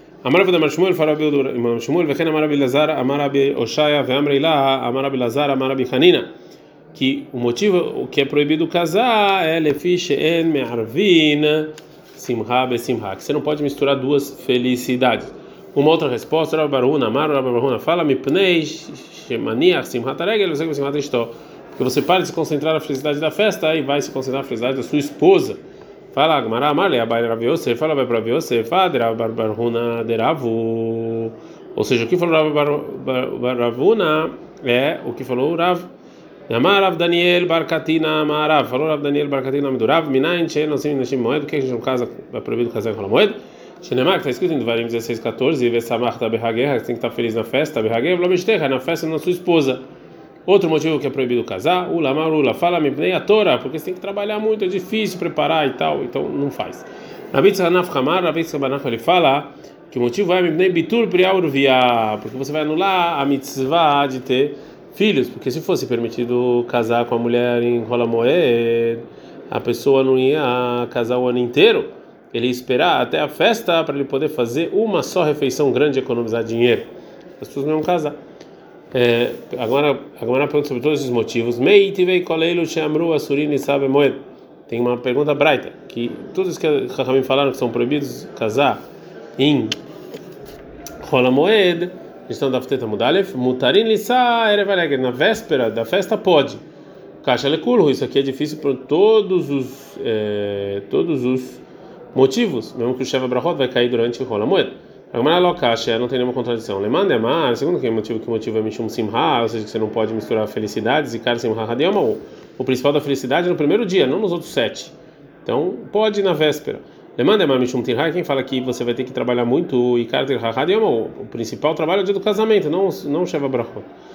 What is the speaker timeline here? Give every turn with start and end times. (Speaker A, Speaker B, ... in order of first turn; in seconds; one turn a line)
Speaker A: 0.2-6.3
Speaker A: 6.9-25.6
Speaker A: 26.1-35.9
Speaker A: 36.5-49.8
Speaker A: 50.5-78.2
Speaker A: 78.9-88.8
Speaker A: 89.4-89.8
Speaker A: 91.0-96.6
Speaker A: 97.2-123.9